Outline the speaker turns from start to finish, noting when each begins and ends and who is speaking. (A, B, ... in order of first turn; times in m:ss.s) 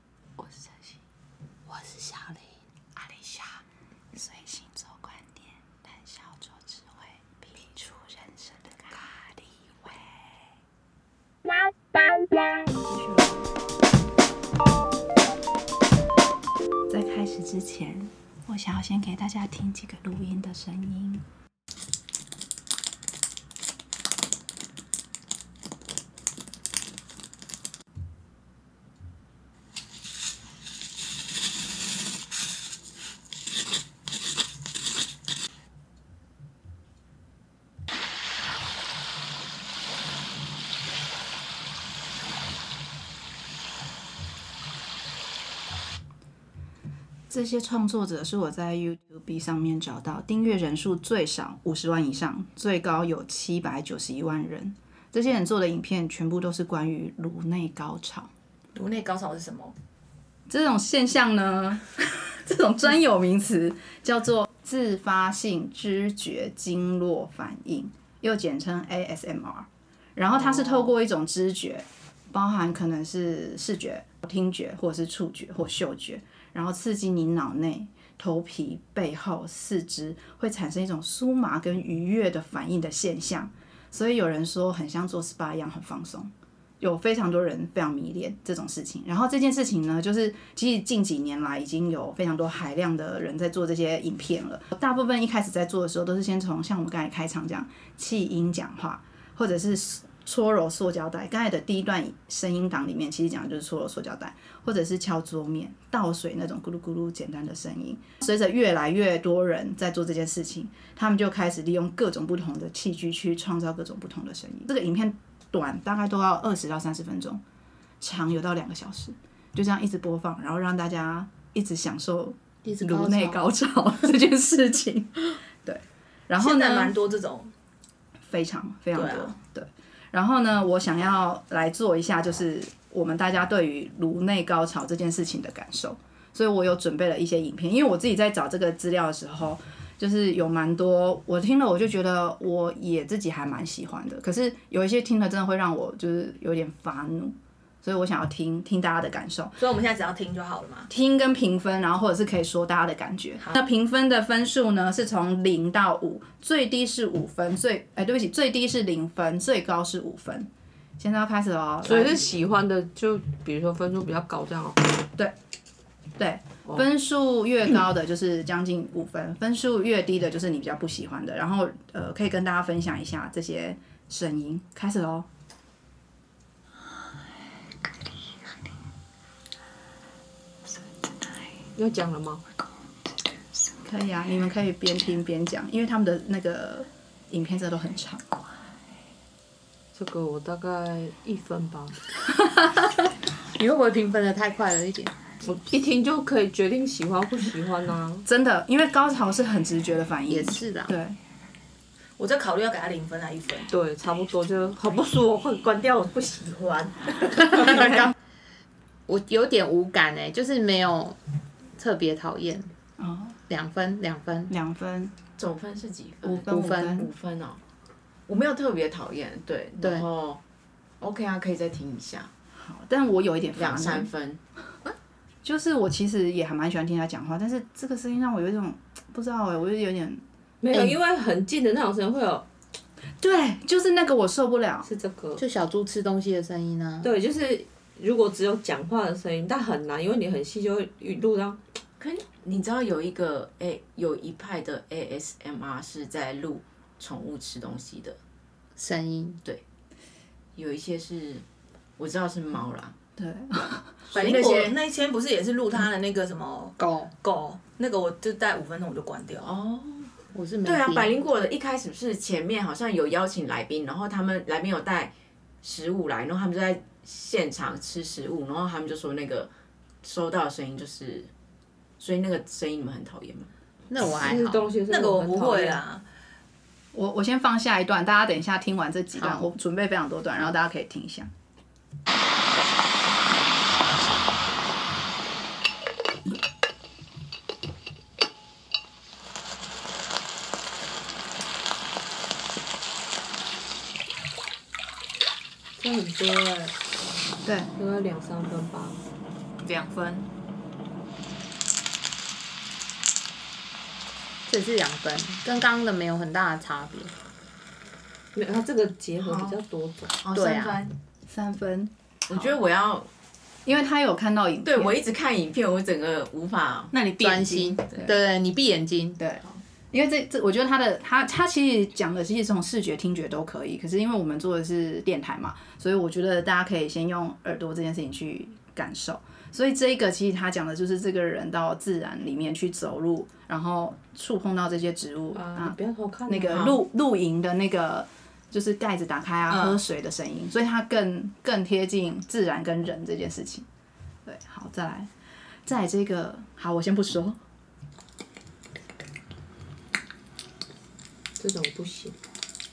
0:00.4-0:00.9 A
0:01.6-0:02.4 B
0:03.0-0:03.6 A
0:04.1-0:10.2 A
0:12.9-0:13.4 A
0:16.9-0:21.2 A
0:47.3-0:58.3 A
0:58.7-0:59.7 C
1:00.5-1:57.4 A
1:58.0-2:06.9 A
2:02.6-2:03.4 B
2:06.4-2:07.5 C
2:08.3-2:29.6 A
2:08.9-2:09.3 C
2:29.6-2:30.9 C
2:30.9-2:42.2 A
2:41.8-2:44.9 D
2:46.2-2:55.3 A
3:01.8-3:02.4 D
3:03.8-3:08.2 A
3:09.9-3:12.0 D
3:13.6-3:15.1 B
3:15.4-3:18.2 D
3:18.2-3:21.2 A
3:20.3-3:20.9 B
3:22.2-3:23.7 C
3:23.7-3:28.0 D
3:27.4-3:28.1 B
3:27.5-3:28.1 A
3:29.1-3:31.2 B
3:31.8-3:32.7 B
3:33.0-3:33.4 A
3:33.5-3:34.5 B
3:34.5-3:35.1 A
3:35.4-3:37.6 E
3:36.2-3:37.1 A
3:36.5-3:37.1 B
3:38.3-3:40.4 E
3:39.8-3:40.1 B
3:41.0-3:42.3 E
3:42.6-3:44.1 A
3:43.6-3:44.9 E
3:45.4-3:50.9 A
3:50.6-3:52.4 D
3:53.2-3:54.9 A
3:54.8-3:55.4 D
3:55.4-3:57.1 B
3:57.0-4:01.6 D
4:02.0-4:08.2 E
4:08.8-4:09.4 B
4:10.6-4:11.4 E
4:12.0-4:12.9 E
4:13.2-4:14.7 A
4:14.1-4:19.5 C
4:14.1-4:14.7 E
4:16.8-4:17.1 B
4:19.4-4:20.1 E
4:20.3-4:21.1 B
4:20.6-4:29.5 E
4:30.0-4:31.3 E
4:32.0-4:33.5 E
4:33.9-4:34.6 B
4:34.2-4:35.8 D
4:34.9-4:36.0 C
4:36.9-4:41.3 A
4:39.2-4:39.4 B
4:55.8-4:56.7 D
4:57.4-4:57.7 A
4:57.8-4:59.0 D
4:59.6-5:00.2 C
5:04.5-5:07.1 B
5:08.3-5:10.1 D
5:09.2-5:09.6 E
5:10.1-5:10.9 E
5:10.3-5:10.8 B
5:11.3-5:12.6 A
5:12.3-5:13.1 E
5:13.6-5:15.0 A
5:14.6-5:16.9 E
5:16.9-5:17.8 C
5:17.2-5:19.2 B
5:19.9-5:35.8 A
5:35.3-5:36.8 D
5:36.3-5:43.7 A
5:36.5-5:36.8 E
5:39.5-5:39.8 C
5:44.2-5:45.1 A
5:45.6-5:47.4 A
5:51.4-5:52.2 D